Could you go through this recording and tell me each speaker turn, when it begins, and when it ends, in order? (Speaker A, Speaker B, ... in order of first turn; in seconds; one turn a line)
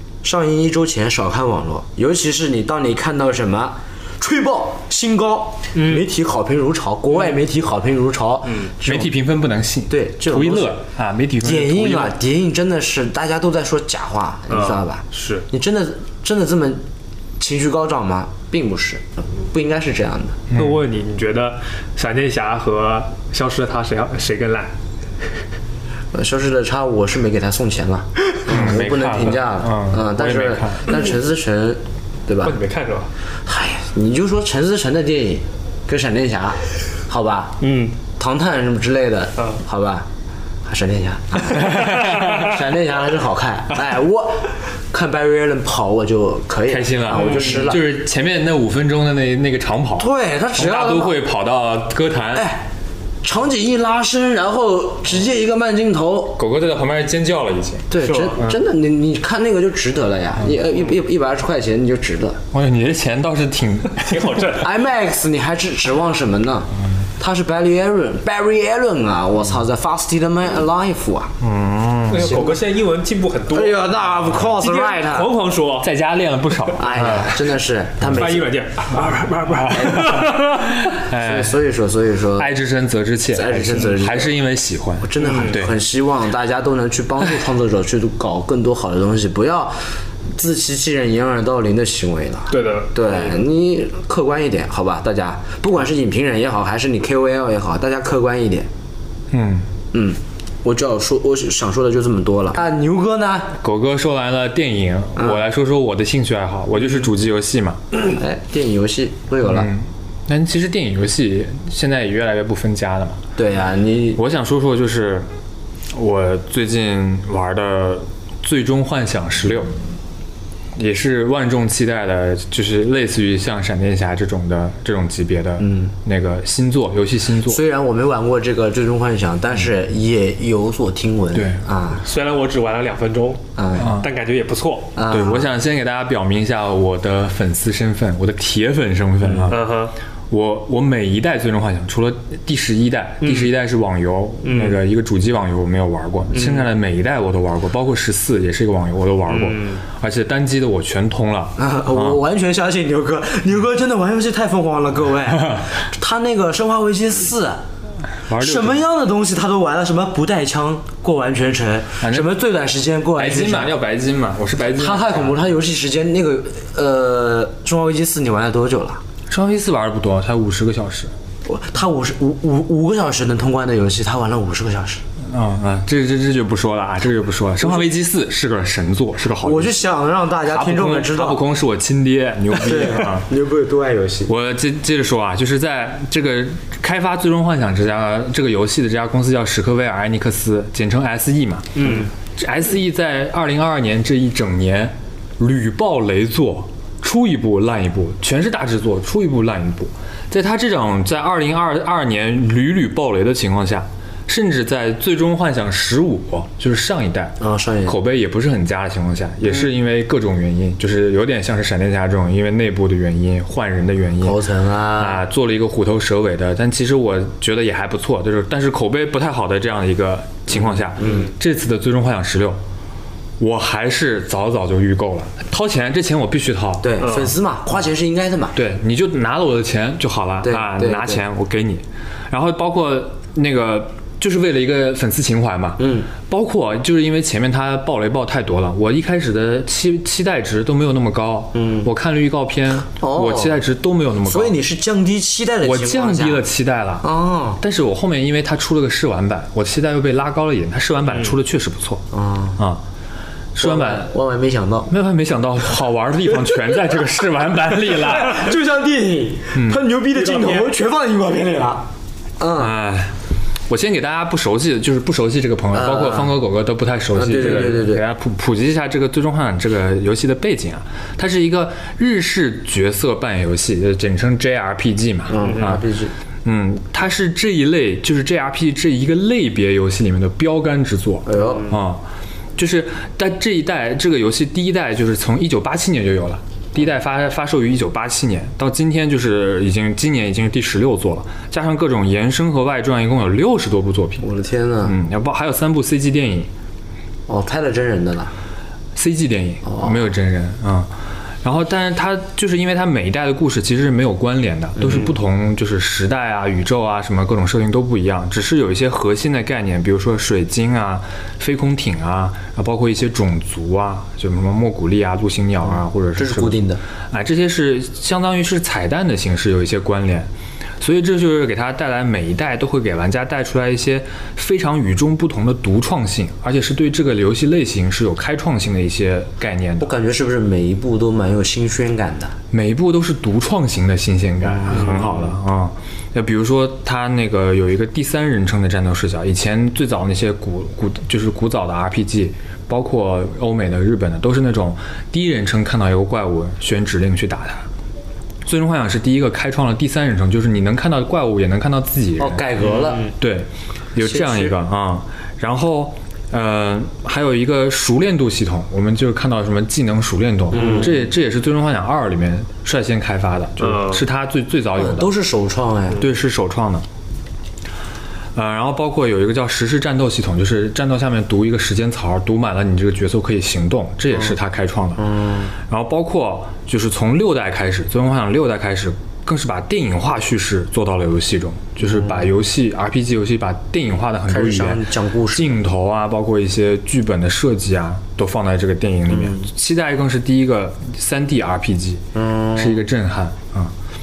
Speaker A: 0.2-9.1
Speaker B: 5.8-6.0
Speaker B: 8.5-8.7
Speaker C: 8.8-12.2
Speaker A: 9.9-10.8
Speaker A: 11.4-16.9
Speaker B: 14.5-15.5
Speaker A: 17.4-20.4
Speaker C: 20.5-20.8
Speaker B: 20.5-24.7
Speaker A: 26.1-32.6
Speaker C: 28.5-31.0
Speaker B: 32.4-33.1
Speaker A: 33.5-37.6
Speaker B: 37.6-38.0
Speaker A: 38.1-40.1
Speaker A: 40.6-47.8
Speaker C: 41.6-42.5
Speaker C: 46.7-52.5
Speaker B: 47.1-47.7
Speaker A: 50.0-51.2
Speaker A: 52.4-52.6
Speaker A: 53.2-56.4
Speaker C: 56.4-57.9
Speaker A: 57.9-62.4
Speaker B: 58.0-58.4
Speaker C: 62.5-64.6
Speaker B: 64.0-64.6
Speaker A: 64.5-71.4
Speaker C: 71.4-72.4
Speaker B: 72.1-73.8
Speaker A: 72.2-72.6
Speaker A: 73.5-75.3
Speaker B: 74.6-75.9
Speaker C: 75.8-77.5
Speaker A: 76.8-78.5
Speaker C: 78.0-78.4
Speaker B: 78.1-80.8
Speaker C: 79.0-81.6
Speaker A: 79.7-80.3
Speaker A: 81.0-82.5
Speaker C: 82.4-85.8
Speaker A: 83.3-84.4
Speaker A: 85.0-89.8
Speaker B: 85.2-85.6
Speaker A: 90.3-98.7
Speaker B: 92.5-93.3
Speaker C: 99.3-99.7
Speaker A: 99.9-103.5
Speaker C: 103.6-107.8
Speaker A: 105.2-105.4
Speaker A: 108.0-109.7
Speaker C: 109.4-113.2
Speaker A: 113.4-114.2
Speaker C: 114.2-115.3
Speaker C: 115.9-119.7
Speaker C: 120.8-127.6
Speaker A: 125.6-125.9
Speaker A: 127.5-132.1
Speaker C: 131.3-131.6
Speaker B: 132.0-134.9
Speaker A: 133.6-133.9
Speaker C: 133.8-134.1
Speaker A: 134.9-135.5
Speaker C: 135.1-139.6
Speaker A: 139.2-139.5
Speaker B: 139.5-139.9
Speaker C: 140.3-152.2
Speaker B: 143.2-143.5
Speaker B: 144.4-144.8
Speaker B: 146.3-146.7
Speaker B: 149.3-149.8
Speaker A: 151.6-157.6
Speaker C: 158.3-158.8
Speaker A: 158.3-163.7
Speaker C: 162.0-162.3
Speaker C: 163.2-165.4
Speaker A: 164.6-169.0
Speaker C: 169.3-171.1
Speaker A: 171.4-175.0
Speaker C: 175.2-179.8
Speaker A: 179.4-181.4
Speaker C: 180.5-183.3
Speaker A: 182.6-184.3
Speaker C: 184.3-214.4
Speaker B: 191.8-192.1
Speaker A: 191.8-192.1
Speaker A: 207.4-208.0
Speaker A: 214.2-215.2
Speaker C: 215.0-222.6
Speaker A: 221.0-221.3
Speaker C: 223.4-227.0
Speaker A: 226.8-228.6
Speaker B: 227.0-227.3
Speaker C: 228.6-244.6
Speaker A: 230.4-231.2
Speaker A: 235.8-236.1
Speaker A: 241.6-241.9
Speaker A: 243.0-243.6
Speaker A: 244.3-246.4
Speaker C: 245.6-247.1
Speaker A: 247.0-247.6
Speaker C: 247.6-252.0
Speaker A: 252.1-252.6
Speaker C: 253.6-254.1
Speaker A: 253.6-254.9
Speaker C: 254.9-258.5
Speaker A: 258.0-261.9
Speaker C: 259.5-259.8
Speaker B: 260.2-260.7
Speaker A: 262.4-262.7
Speaker C: 262.6-263.1
Speaker C: 263.7-275.8
Speaker A: 265.7-266.3
Speaker A: 267.1-268.0
Speaker A: 275.3-276.1
Speaker C: 276.4-282.0
Speaker A: 281.3-281.8
Speaker C: 282.6-294.3
Speaker A: 294.2-294.9
Speaker C: 294.8-296.5
Speaker A: 297.3-298.3
Speaker C: 298.9-300.9
Speaker A: 299.6-300.0
Speaker C: 301.4-329.9
Speaker A: 304.8-305.1
Speaker A: 316.1-316.8
Speaker A: 329.8-332.4
Speaker C: 332.5-347.7
Speaker A: 334.6-335.0
Speaker B: 334.7-335.2
Speaker C: 348.4-365.1
Speaker A: 352.2-353.1
Speaker A: 354.0-354.6
Speaker A: 360.5-361.0
Speaker B: 363.6-364.1
Speaker A: 364.8-366.0
Speaker C: 366.0-366.9
Speaker C: 368.4-375.0
Speaker A: 375.0-375.5
Speaker C: 375.6-392.0
Speaker A: 381.8-382.3
Speaker A: 384.3-385.6
Speaker A: 389.1-389.5
Speaker A: 392.1-392.8
Speaker C: 392.6-393.7